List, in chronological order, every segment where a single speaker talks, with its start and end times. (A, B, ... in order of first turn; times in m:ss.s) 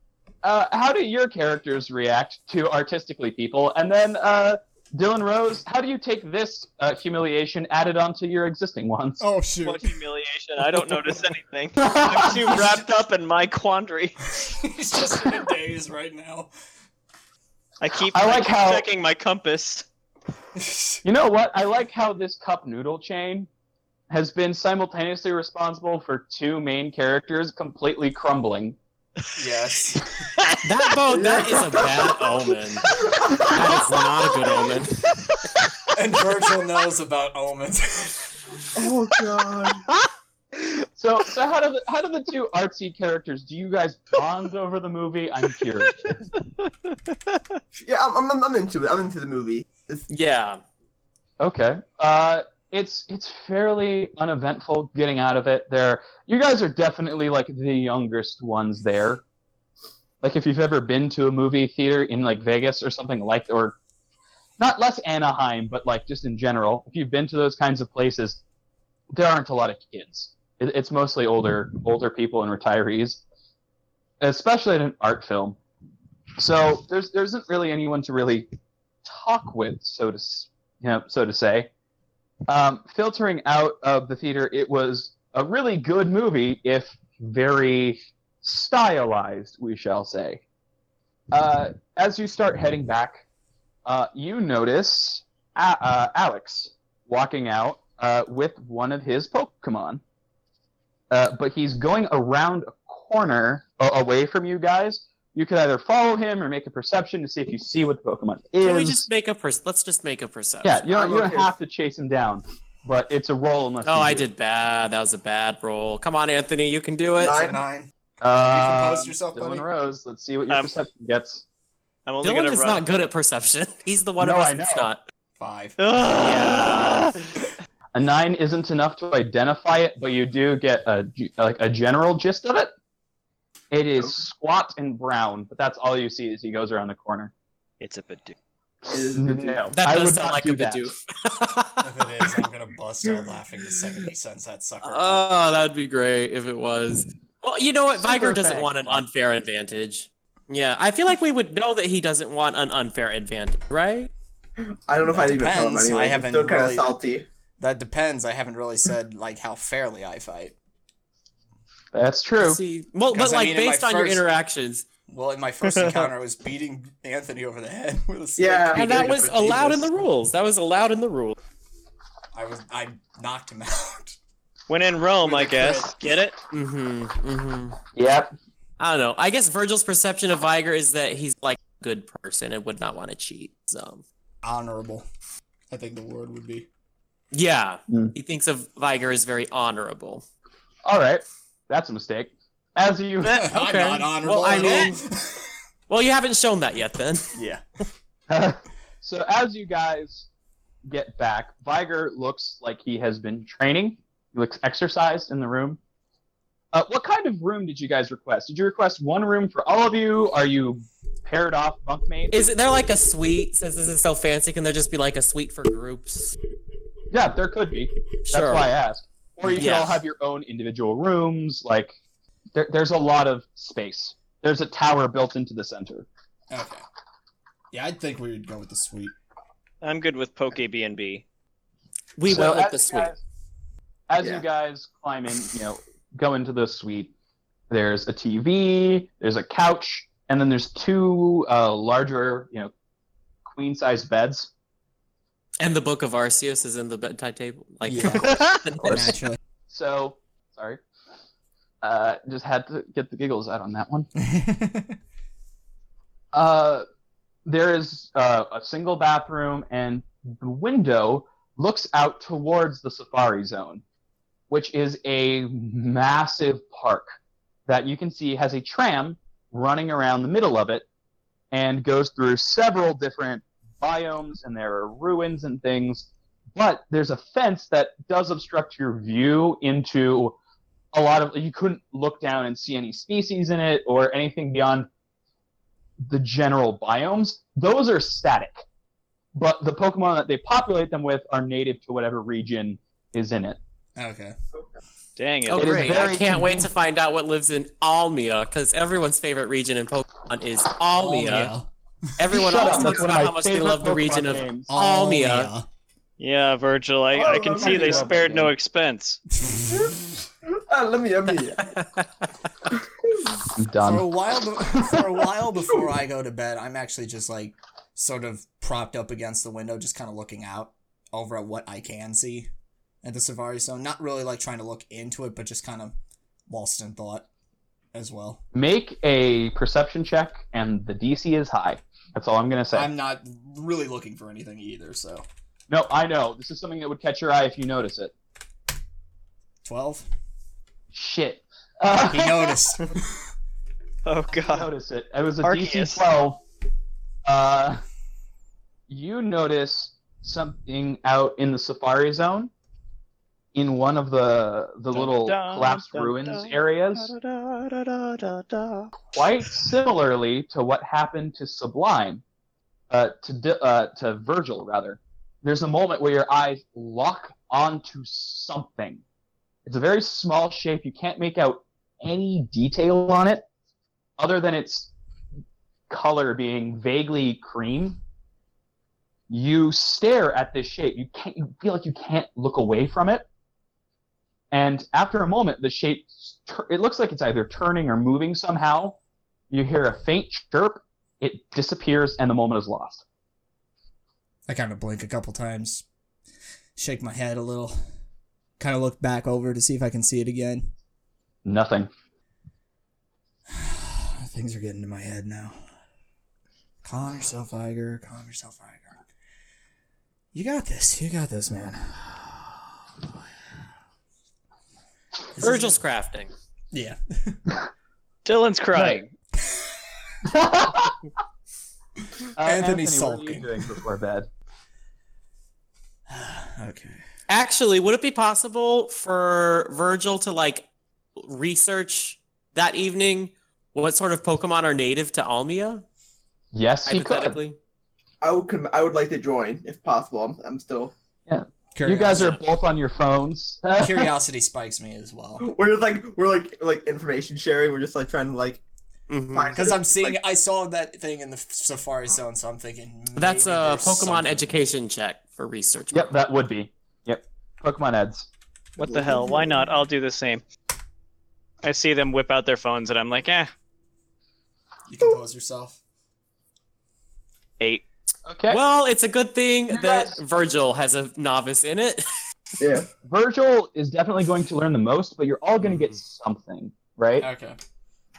0:00.4-0:09.2 A
0:09.2-0:10.0 B
0:09.6-0:14.2 C
0:10.7-0:11.2 B
0:11.8-0:12.4 A
0:14.4-0:16.5 B
0:17.8-0:19.9 C
0:18.1-0:18.9 A
0:20.6-0:21.0 B
0:21.0-0:23.5 A
0:24.1-0:28.8 A
0:29.4-0:30.1 B
0:30.6-0:35.0 D
0:31.1-0:32.2 E
0:35.9-0:38.4 B
0:38.8-0:39.9 E
0:41.0-0:46.1 A
0:46.0-0:47.4 C
0:47.8-0:50.0 E
0:50.1-0:50.6 D
0:51.4-0:59.2 A
1:00.2-1:03.8 A
1:04.6-1:08.4 A
1:09.1-1:13.2 A
1:14.2-1:15.6 A
1:16.4-1:18.5 A
1:19.0-1:21.7 A
1:22.5-1:30.4 A
1:31.3-1:33.2 A
1:33.9-1:40.0 A
1:41.1-1:49.1 A
1:48.6-1:50.8 D
1:50.6-1:54.3 A
1:50.9-1:51.5 E
1:53.8-1:57.4 D
1:57.2-1:57.6 E
1:57.2-1:59.7 B
1:58.2-2:01.4 A
2:02.1-2:02.9 C
2:02.2-2:05.0 D
2:04.2-2:04.9 A
2:05.4-2:05.8 B
2:05.8-2:07.2 C
2:08.0-2:12.7 A
2:13.7-2:17.3 A
2:17.8-2:18.4 C
2:18.9-2:19.6 E
2:18.9-2:20.9 A
2:19.7-2:21.9 D
2:21.8-2:25.2 B
2:24.8-2:34.1 D
2:28.0-2:29.0 A
2:34.6-2:37.2 E
2:35.0-2:36.9 B
2:37.6-2:40.5 B
2:41.9-2:42.6 A
2:42.4-2:44.9 D
2:43.1-2:44.2 B
2:45.1-2:49.9 B
2:45.7-2:46.0 C
2:48.4-2:49.5 E
2:48.7-2:51.4 D
2:52.3-2:54.2 B
2:54.7-2:56.4 C
2:55.2-2:55.9 B
2:56.5-2:57.8 D
2:58.0-2:58.3 A
2:58.8-3:04.0 D
3:04.4-3:05.1 B
3:05.7-3:06.7 B
3:07.3-3:10.2 D
3:07.9-3:08.1 A
3:10.8-3:13.4 A
3:13.2-3:15.5 B
3:13.4-3:15.0 D
3:15.9-3:17.3 D
3:17.4-3:17.6 B
3:18.3-3:20.3 A
3:20.8-3:25.8 A
3:26.7-3:32.4 A
3:32.3-3:36.3 D
3:37.1-3:41.9 A
3:38.3-3:38.7 D
3:39.6-3:40.0 D
3:42.5-3:46.1 A
3:46.5-3:46.8 B
3:47.7-3:49.1 B
3:49.8-3:51.2 C
3:52.2-3:53.1 D
3:52.2-3:53.2 A
3:54.1-3:57.1 A
3:57.7-4:02.7 A
4:03.5-4:04.5 A
4:05.6-4:09.2 D
4:07.9-4:09.4 B
4:08.8-4:09.1 A
4:09.7-4:10.8 A
4:11.8-4:14.1 A
4:14.2-4:15.0 B
4:16.3-4:16.8 A
4:17.5-4:23.8 A
4:24.5-4:27.1 A
4:27.7-4:30.8 A
4:31.5-4:40.4 A
4:40.9-4:44.9 A
4:46.0-4:48.6 A
4:49.3-4:53.6 A
4:54.0-4:54.4 B
4:55.2-4:56.1 C
4:55.5-5:01.6 D
4:55.6-4:56.7 A
5:00.9-5:01.7 B
5:02.2-5:05.5 D
5:02.3-5:04.7 A
5:04.7-5:05.7 B
5:06.2-5:09.2 C
5:07.1-5:08.4 E
5:07.6-5:08.5 A
5:09.4-5:09.9 B
5:09.7-5:09.9 E
5:10.5-5:11.7 E
5:13.6-5:14.1 A
5:13.8-5:22.5 B
5:23.0-5:25.9 B
5:26.5-5:27.2 B
5:27.9-5:28.4 B
5:28.5-5:32.9 A
5:32.7-5:35.2 B
5:35.7-5:38.1 A
5:39.6-5:40.1 B
5:40.9-5:42.6 A
5:42.0-5:43.0 B
5:44.0-5:44.7 C
5:44.3-5:46.4 A
5:45.4-5:46.1 C
5:47.2-5:47.8 A
5:48.9-5:52.5 A
5:53.6-5:57.1 A
5:54.9-5:58.9 C
5:59.1-6:02.2 A
6:02.9-6:09.0 A
6:09.6-6:13.4 A
6:14.2-6:14.9 A
6:15.9-6:18.0 A
6:19.3-6:23.2 A
6:24.5-6:29.0 A
6:29.5-6:33.0 A
6:34.5-6:35.8 B
6:36.8-6:37.8 B
6:38.6-6:40.7 B
6:41.4-6:41.9 A
6:43.5-6:45.6 B
6:46.8-6:49.0 B
6:50.3-6:52.0 B
6:55.4-6:56.3 D
6:56.7-6:57.4 B
6:58.2-6:59.1 C
6:58.8-6:59.0 A
7:00.3-7:01.0 A
7:02.4-7:04.3 A
7:02.4-7:03.8 B
7:06.1-7:07.0 B
7:07.3-7:10.6 D
7:11.2-7:15.8 D
7:16.5-7:17.4 A
7:16.8-7:17.6 D
7:18.2-7:20.9 E
7:21.3-7:24.1 A
7:21.8-7:22.4 B
7:22.1-7:22.4 D
7:23.8-7:25.5 B
7:25.4-7:28.6 E
7:29.1-7:29.5 D
7:29.3-7:30.2 E
7:29.5-7:34.6 B
7:33.2-7:36.1 D
7:35.9-7:38.3 A
7:38.8-7:40.4 C
7:38.8-7:39.6 E
7:41.6-7:43.5 C
7:44.9-7:45.8 B
7:48.2-7:48.6 A
7:48.5-7:52.0 D
7:49.7-7:50.2 A
7:52.6-7:52.9 E
7:53.0-7:57.3 A
7:57.2-7:57.6 B